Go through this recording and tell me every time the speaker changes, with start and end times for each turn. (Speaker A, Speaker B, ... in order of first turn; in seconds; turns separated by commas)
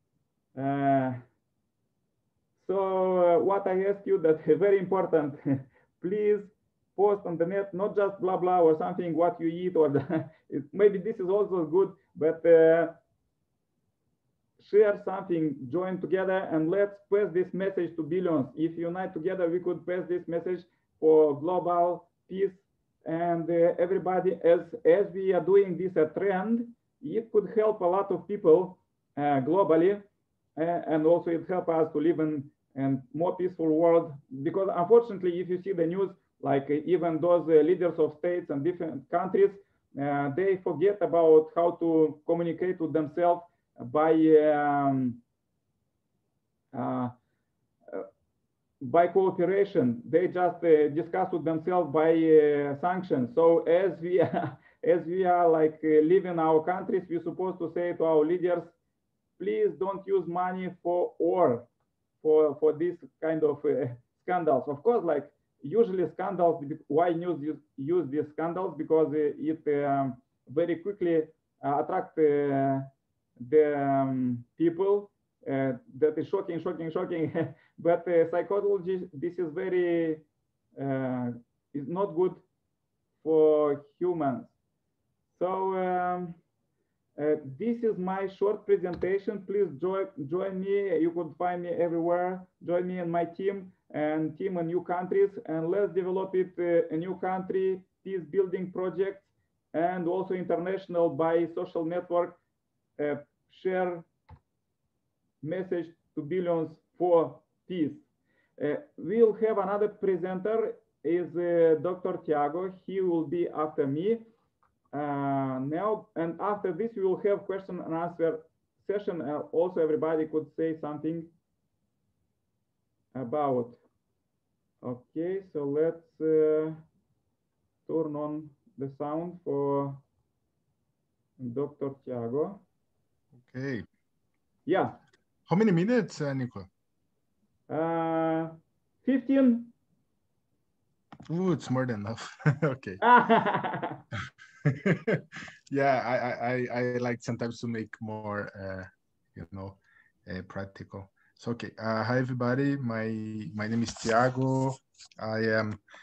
Speaker A: 0.5-1.2, Speaker A: 2.6-13.0, Speaker A: 14.6-30.0, Speaker A: 30.6-45.2, Speaker A: 46.7-47.1, Speaker A: 48.8-58.7, Speaker A: 59.4-61.7, Speaker A: 62.2-80.2, Speaker A: 80.8-82.4, Speaker A: 83.2-84.5, Speaker A: 85.3-86.4, Speaker A: 87.2-102.4, Speaker A: 103.0-104.1, Speaker A: 105.4-108.0, Speaker A: 108.6-114.3, Speaker A: 114.9-121.3, Speaker A: 123.1-123.8, Speaker A: 124.8-126.8, Speaker A: 127.9-130.0, Speaker A: 131.4-132.6, Speaker B: 133.3-133.8, Speaker A: 134.7-135.0, Speaker B: 135.5-136.7, Speaker A: 137.7-139.7, Speaker B: 141.3-143.0, Speaker A: 143.0-144.0, Speaker B: 144.6-155.8